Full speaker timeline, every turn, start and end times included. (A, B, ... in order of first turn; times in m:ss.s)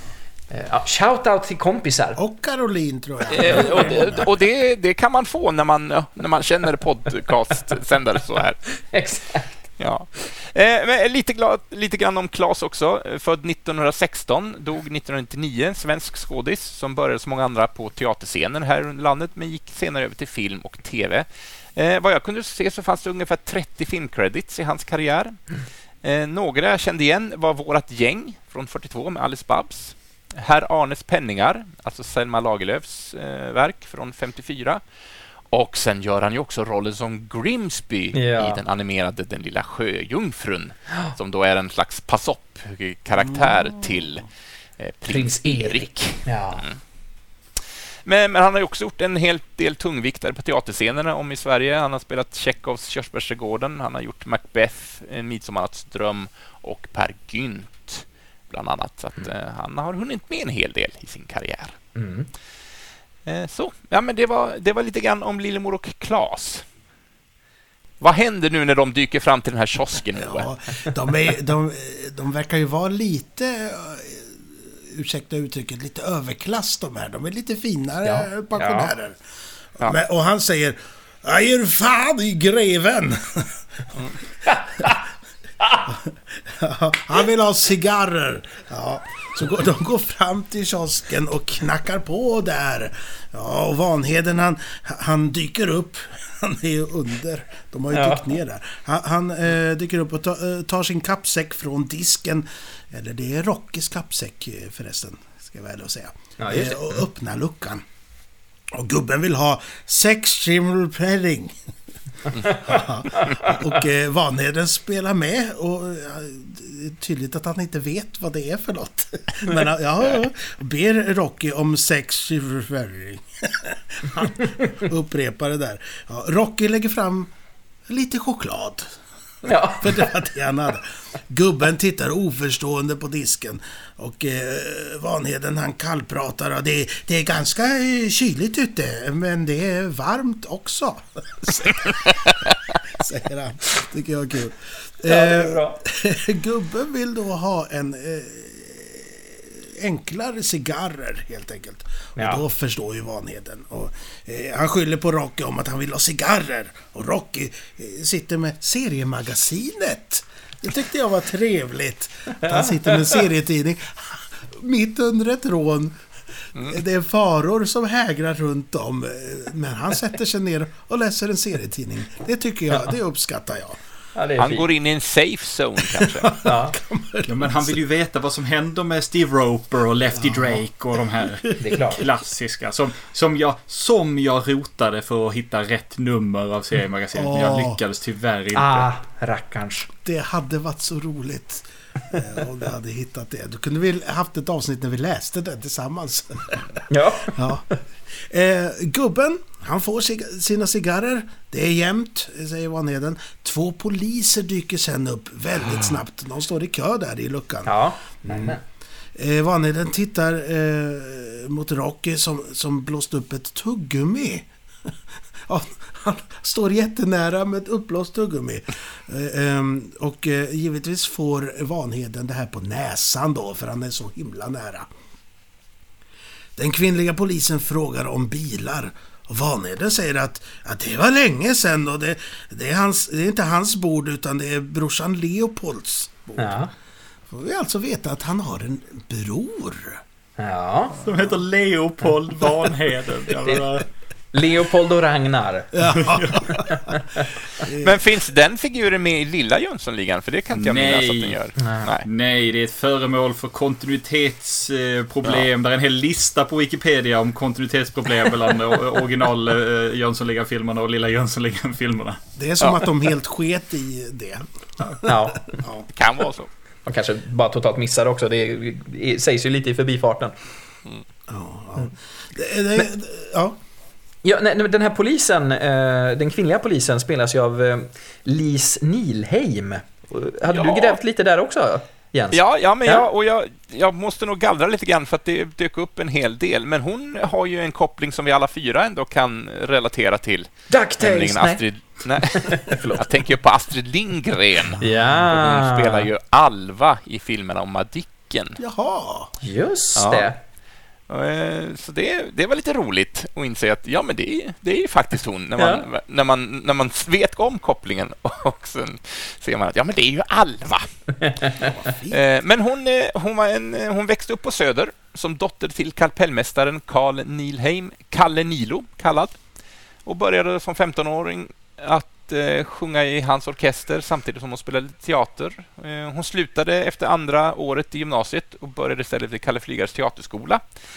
0:00.5-0:02.2 A
0:02.2-0:04.3 B
0:03.3-0:08.6 C
0:03.4-0:03.9 A
0:08.8-0:09.5 A
0:09.8-0:25.4 C
0:26.0-0:34.8 C
0:35.5-0:44.2 C
0:38.1-0:38.6 A
0:44.8-0:46.8 C
0:45.1-0:46.6 A
0:48.0-1:01.8 C
1:02.0-1:02.3 A
1:03.2-1:06.6 C
1:08.0-1:10.5 C
1:10.2-1:19.2 B
1:18.0-1:18.9 A
1:19.8-1:23.8 B
1:24.4-1:25.0 A
1:25.8-1:47.8 B
1:37.9-1:38.3 A
1:46.4-1:46.9 A
1:48.7-1:51.5 B
1:52.4-1:53.5 A
1:52.5-2:07.3 B
2:04.4-2:04.7 A
2:07.9-2:08.9 B
2:09.4-2:10.1 A
2:09.8-2:22.4 B
2:22.9-2:46.0 B
2:25.0-2:25.8 A
2:32.2-2:32.4 A
2:42.5-2:43.1 A
2:46.6-2:53.8 B
2:54.1-2:54.7 A
2:54.4-2:56.4 C
2:55.9-2:57.7 B
2:56.4-2:56.8 A
2:57.2-3:08.9 D
3:00.1-3:00.6 B
3:01.6-3:02.0 A
3:07.1-3:07.8 B
3:08.5-3:09.9 A
3:10.0-3:27.7 B
3:16.9-3:17.5 A
3:27.6-3:28.6 A
3:28.2-3:28.6 B
3:29.1-3:34.9 B
3:35.4-3:44.9 B
3:46.6-3:56.6 B
3:56.4-3:56.7 A
3:57.3-4:00.0 B
4:00.4-4:01.0 A
4:01.0-4:03.9 D
4:04.3-4:07.3 A
4:05.7-4:08.0 B
4:06.0-4:06.4 D
4:07.7-4:12.1 C
4:10.5-4:11.4 D
4:11.6-4:11.9 A
4:12.0-4:22.2 D
4:22.4-4:25.9 B
4:22.6-4:22.9 C
4:25.0-4:25.6 A
4:25.9-4:26.5 C
4:26.8-4:30.3 A
4:31.3-4:33.6 B
4:34.2-4:43.0 A
4:40.5-4:41.0 C
4:42.3-4:58.6 C
4:50.7-4:51.6 A
4:52.3-4:53.0 A
4:54.8-4:56.1 A
4:58.6-4:59.3 B
4:59.4-5:00.4 A
5:00.0-5:00.3 C
5:01.1-5:10.9 C
5:05.6-5:05.9 A
5:11.2-5:11.7 A
5:11.6-5:12.2 B
5:12.1-5:19.4 C
5:20.0-5:30.6 C